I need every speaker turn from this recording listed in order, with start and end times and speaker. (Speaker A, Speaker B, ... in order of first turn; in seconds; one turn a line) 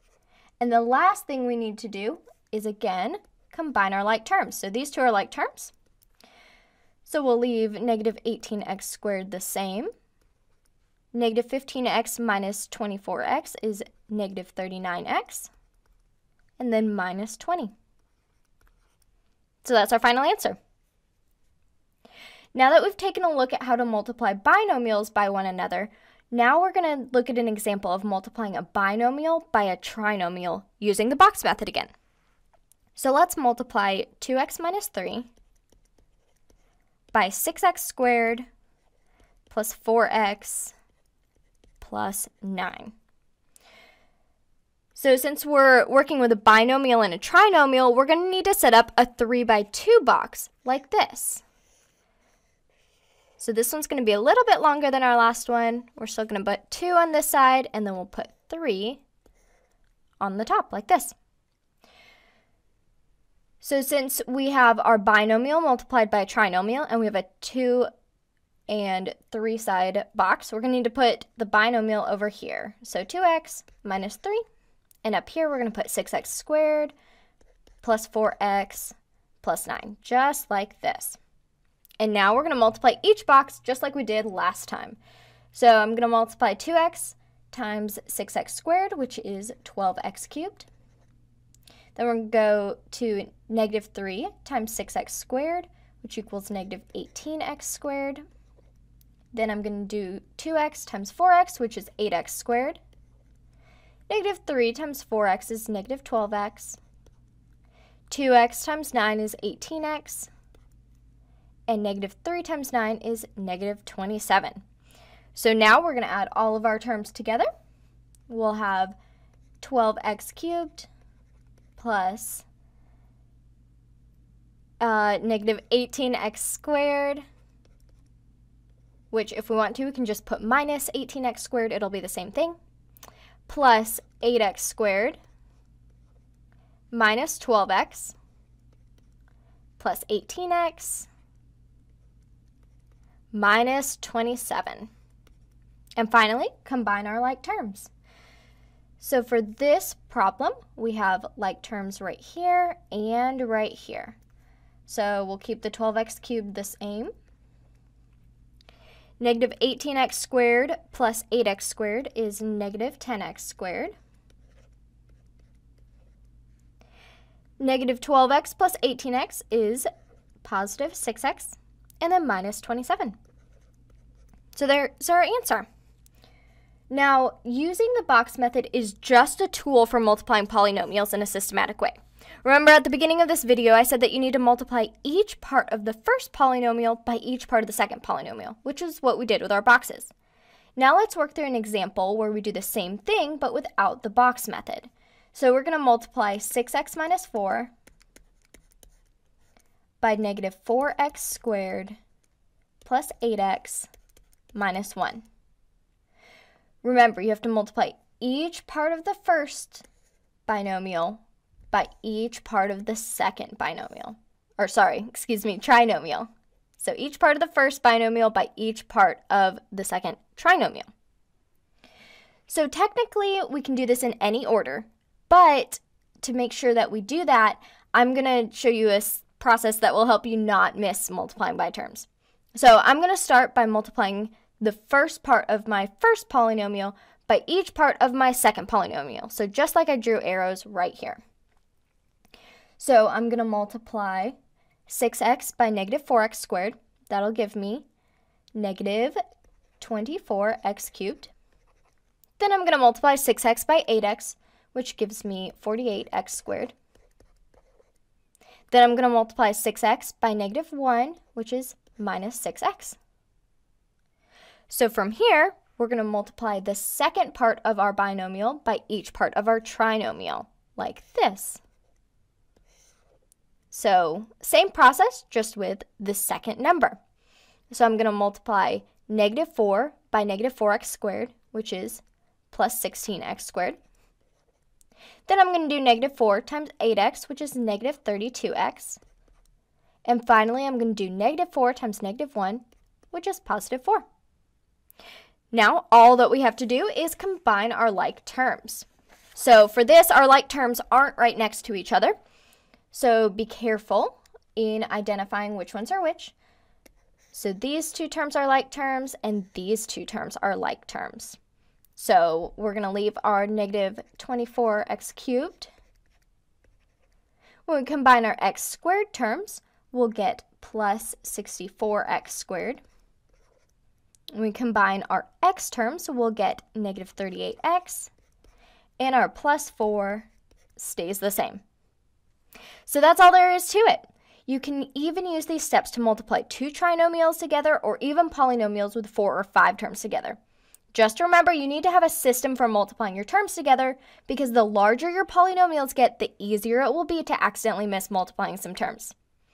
Speaker A: 0.6-5.7
Speaker A: 7.0-9.9
Speaker A: 11.1-15.5
Speaker A: 16.6-17.7
Speaker A: 19.6-20.6
Speaker A: 22.5-31.9
Speaker A: 33.0-35.3
Speaker A: 37.1-38.5
Speaker A: 39.5-40.7
Speaker A: 41.8-42.9
Speaker A: 44.9-51.4
Speaker A: 53.4-59.0
Speaker A: 60.2-61.1
Speaker A: 63.6-67.9
Speaker A: 68.7-74.4
Speaker A: 75.0-76.9
Speaker A: 77.8-81.2
Speaker A: 82.0-85.0
Speaker A: 85.5-90.7
Speaker A: 91.9-98.2
Speaker A: 99.3-102.8
Speaker A: 104.1-106.8
Speaker A: 108.1-110.3
Speaker A: 111.7-114.6
Speaker A: 115.3-117.5
Speaker A: 118.3-119.0
Speaker A: 119.6-120.9
Speaker A: 121.8-122.4
Speaker A: 124.8-127.2
Speaker A: 129.1-132.6
Speaker A: 133.5-135.2
Speaker A: 136.9-138.2
Speaker A: 139.8-141.1
Speaker A: 143.3-144.9
Speaker A: 146.0-147.9
Speaker A: 149.0-154.2
Speaker A: 154.9-157.1
Speaker A: 159.2-163.9
Speaker A: 167.6-169.9
Speaker A: 170.4-173.2
Speaker A: 174.5-175.7
Speaker A: 176.9-190.1
Speaker A: 190.8-197.7
Speaker A: 200.0-202.0
Speaker A: 202.8-203.9
Speaker A: 204.5-205.2
Speaker A: 206.8-209.8
Speaker A: 210.5-220.9
Speaker A: 222.5-241.2
Speaker A: 242.8-244.3
Speaker A: 244.9-247.8
Speaker A: 248.5-249.2
Speaker A: 249.8-251.3
Speaker A: 252.4-256.7
Speaker A: 258.7-263.0
Speaker A: 264.7-271.6
Speaker A: 273.7-277.0
Speaker A: 277.7-283.8
Speaker A: 285.3-289.0
Speaker A: 290.0-294.0
Speaker A: 295.5-302.1
Speaker A: 302.9-306.3
Speaker A: 307.3-311.4
Speaker A: 312.0-315.7
Speaker A: 317.6-322.8
Speaker A: 324.3-328.1
Speaker A: 329.0-331.6
Speaker A: 332.9-340.4
Speaker A: 340.9-349.1